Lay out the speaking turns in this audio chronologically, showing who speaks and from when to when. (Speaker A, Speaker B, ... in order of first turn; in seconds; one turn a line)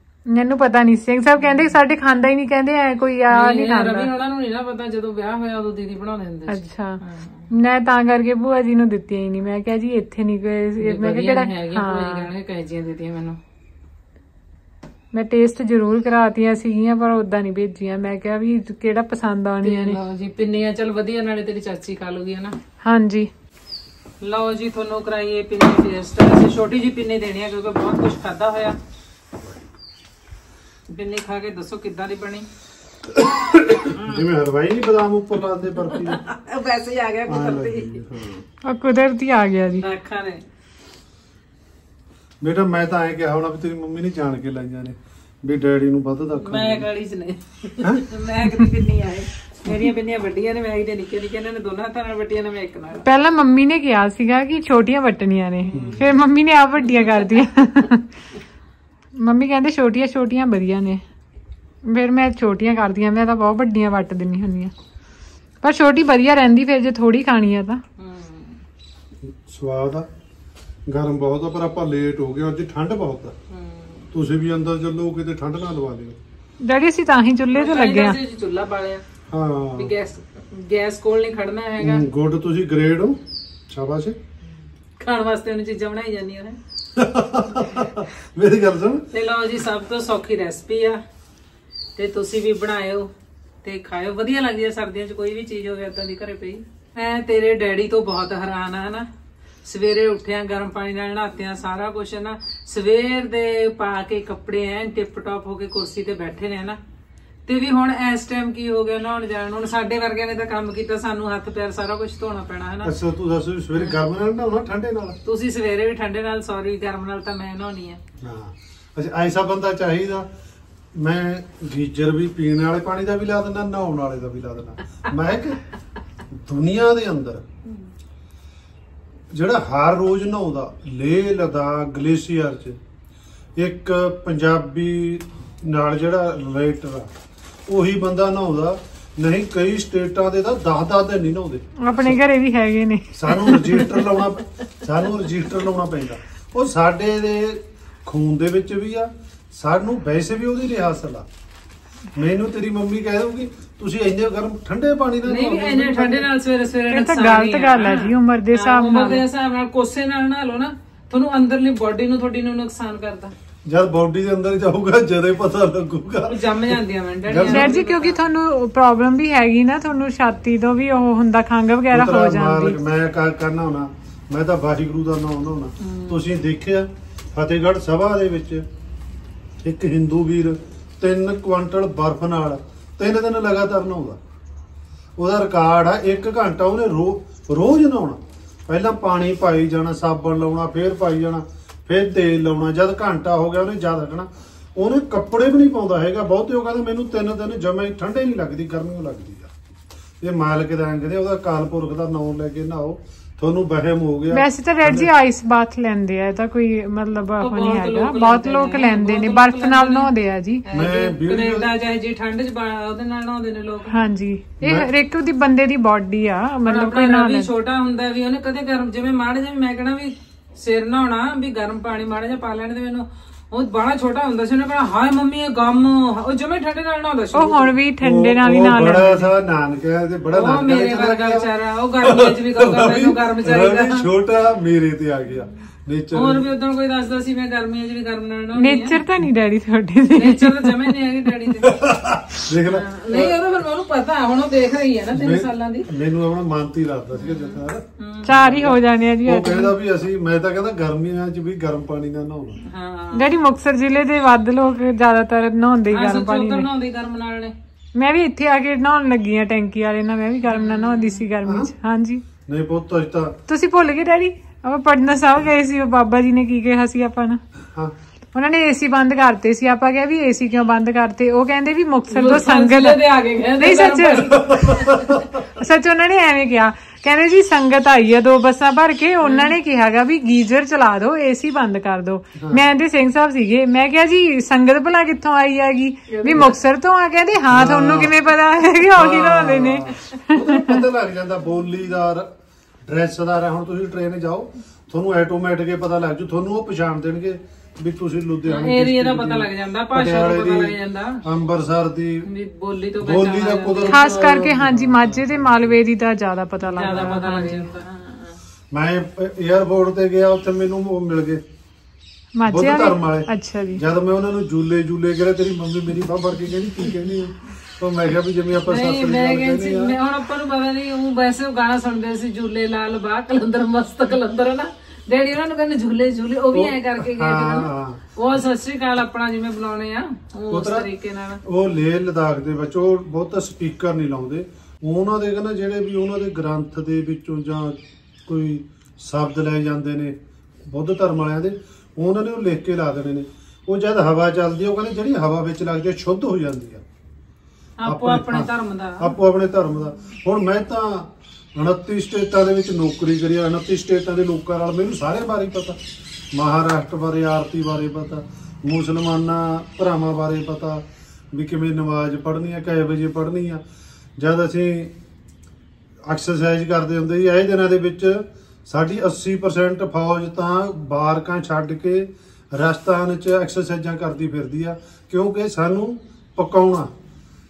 Speaker A: 0.3-4.1
Speaker B: 3.3-7.5
Speaker A: 6.5-7.0
Speaker A: 7.5-12.3
Speaker B: 10.8-13.4
Speaker A: 15.1-20.0
Speaker B: 19.6-22.6
Speaker A: 22.8-23.3
Speaker B: 24.2-28.8
Speaker B: 30.9-32.5
Speaker C: 33.1-36.2
Speaker B: 35.9-38.0
Speaker C: 37.3-38.4
Speaker A: 38.6-39.9
Speaker B: 39.8-40.5
Speaker C: 42.4-46.9
Speaker B: 46.4-53.1
Speaker C: 47.8-48.7
Speaker A: 53.0-58.1
Speaker B: 55.7-56.0
Speaker C: 55.7-56.1
Speaker A: 59.2-61.0
Speaker A: 61.9-64.7
Speaker A: 65.6-67.8
Speaker B: 68.0-68.6
Speaker C: 69.3-70.1
Speaker C: 70.9-73.3
Speaker B: 73.5-74.1
Speaker C: 74.1-76.2
Speaker A: 76.6-78.2
Speaker B: 77.5-79.0
Speaker C: 79.3-79.9
Speaker B: 79.8-82.0
Speaker C: 81.8-84.2
Speaker B: 85.0-86.6
Speaker C: 87.0-89.0
Speaker B: 89.1-91.0
Speaker B: 92.0-93.1
Speaker B: 93.6-99.1
Speaker B: 99.7-106.8
Speaker B: 107.5-113.0
Speaker C: 112.8-115.2
Speaker B: 115.2-118.0
Speaker C: 118.2-120.3
Speaker C: 121.0-125.6
Speaker C: 126.3-127.4
Speaker C: 129.3-132.8
Speaker C: 133.6-137.1
Speaker C: 137.7-142.2
Speaker A: 141.8-144.1
Speaker C: 143.2-151.3
Speaker C: 152.2-156.3
Speaker B: 155.2-163.3
Speaker A: 156.9-159.3
Speaker C: 163.7-167.7
Speaker B: 166.3-168.2
Speaker A: 167.5-172.8
Speaker C: 171.9-178.6
Speaker B: 175.8-176.2
Speaker C: 179.6-184.2
Speaker C: 185.2-199.5
Speaker C: 200.2-205.1
Speaker A: 204.3-210.7
Speaker B: 207.4-210.1
Speaker B: 210.7-214.0
Speaker C: 210.7-211.7
Speaker A: 213.9-217.5
Speaker C: 214.6-214.9
Speaker B: 216.7-227.7
Speaker A: 227.3-229.3
Speaker C: 228.0-236.5
Speaker B: 230.3-234.1
Speaker B: 236.1-239.0
Speaker A: 238.6-240.9
Speaker B: 240.2-241.7
Speaker C: 241.6-243.4
Speaker B: 242.7-245.9
Speaker C: 245.1-252.6
Speaker B: 247.2-248.3
Speaker A: 248.3-249.7
Speaker B: 252.7-253.4
Speaker A: 253.2-256.7
Speaker B: 255.9-257.5
Speaker A: 257.9-262.2
Speaker B: 260.4-261.2
Speaker C: 261.4-261.7
Speaker C: 262.4-263.4
Speaker A: 263.5-267.4
Speaker A: 268.3-273.0
Speaker B: 272.1-275.3
Speaker A: 273.6-274.4
Speaker C: 274.5-275.2
Speaker A: 275.4-290.9
Speaker B: 279.2-279.6
Speaker B: 286.1-286.5
Speaker C: 287.5-288.2
Speaker C: 288.9-292.3
Speaker C: 292.9-302.3
Speaker B: 298.4-301.2
Speaker B: 302.3-304.5
Speaker C: 303.0-305.8
Speaker A: 303.9-307.7
Speaker B: 306.6-308.4
Speaker C: 308.7-311.4
Speaker A: 312.4-313.8
Speaker C: 312.5-320.0
Speaker B: 318.6-331.4
Speaker C: 326.5-328.1
Speaker C: 330.5-330.9
Speaker C: 331.4-340.2
Speaker C: 340.7-346.8
Speaker B: 347.8-349.1
Speaker C: 347.9-355.8
Speaker C: 356.3-363.6
Speaker C: 364.2-365.0
Speaker C: 366.1-376.9